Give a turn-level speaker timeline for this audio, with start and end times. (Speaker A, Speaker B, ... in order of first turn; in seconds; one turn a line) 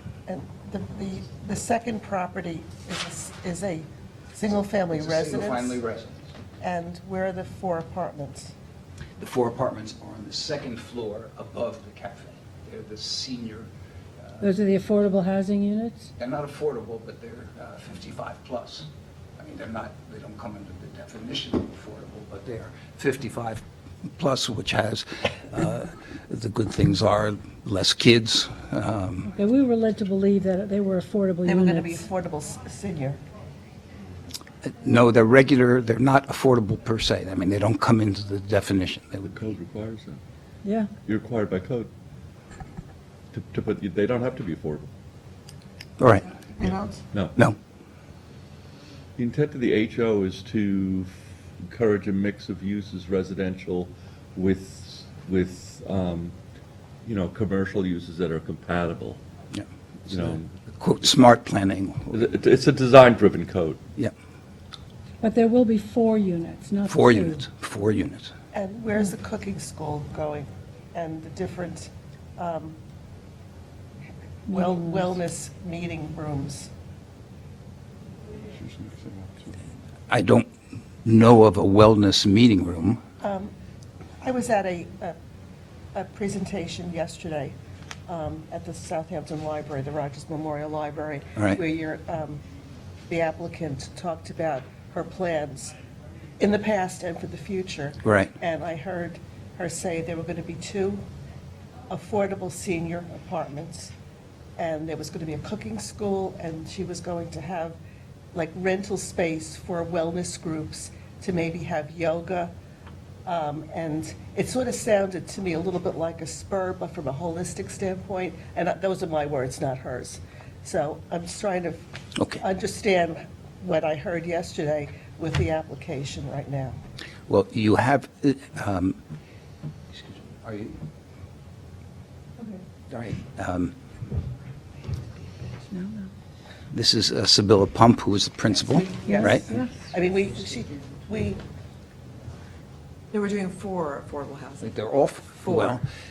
Speaker A: 0.3-5.8
Speaker B: 4.9-6.3
Speaker A: 6.6-8.5
Speaker B: 9.2-14.5
Speaker C: 14.4-16.1
Speaker B: 16.2-29.3
Speaker C: 29.3-32.1
Speaker A: 31.4-33.2
Speaker B: 34.6-39.5
Speaker D: 39.3-40.2
Speaker C: 40.6-40.9
Speaker D: 41.0-41.9
Speaker D: 43.3-44.9
Speaker B: 46.0-46.3
Speaker A: 46.6-47.0
Speaker D: 49.2-56.3
Speaker D: 57.0-59.2
Speaker B: 59.5-62.3
Speaker D: 60.0-60.5
Speaker D: 62.1-63.8
Speaker C: 65.2-67.4
Speaker B: 66.8-68.3
Speaker A: 68.5-72.8
Speaker C: 74.5-75.1
Speaker A: 74.5-76.7
Speaker D: 78.5-79.5
Speaker B: 80.1-80.5
Speaker B: 81.0-83.0
Speaker A: 83.2-83.5
Speaker A: 84.2-85.2
Speaker A: 85.9-87.5
Speaker A: 88.1-92.4
Speaker A: 93.1-95.7
Speaker A: 96.4-101.0
Speaker B: 98.0-98.3
Speaker A: 101.9-103.9
Speaker A: 104.6-107.8
Speaker A: 108.3-112.5
Speaker A: 113.2-121.8
Speaker B: 122.2-122.4
Speaker A: 122.3-126.8
Speaker B: 127.3-129.0
Speaker B: 129.9-130.8
Speaker B: 132.9-133.7
Speaker C: 135.7-136.1
Speaker B: 136.7-139.6
Speaker C: 139.0-139.7
Speaker A: 139.1-141.4
Speaker E: 143.1-144.8
Speaker B: 144.6-145.8
Speaker E: 145.3-145.8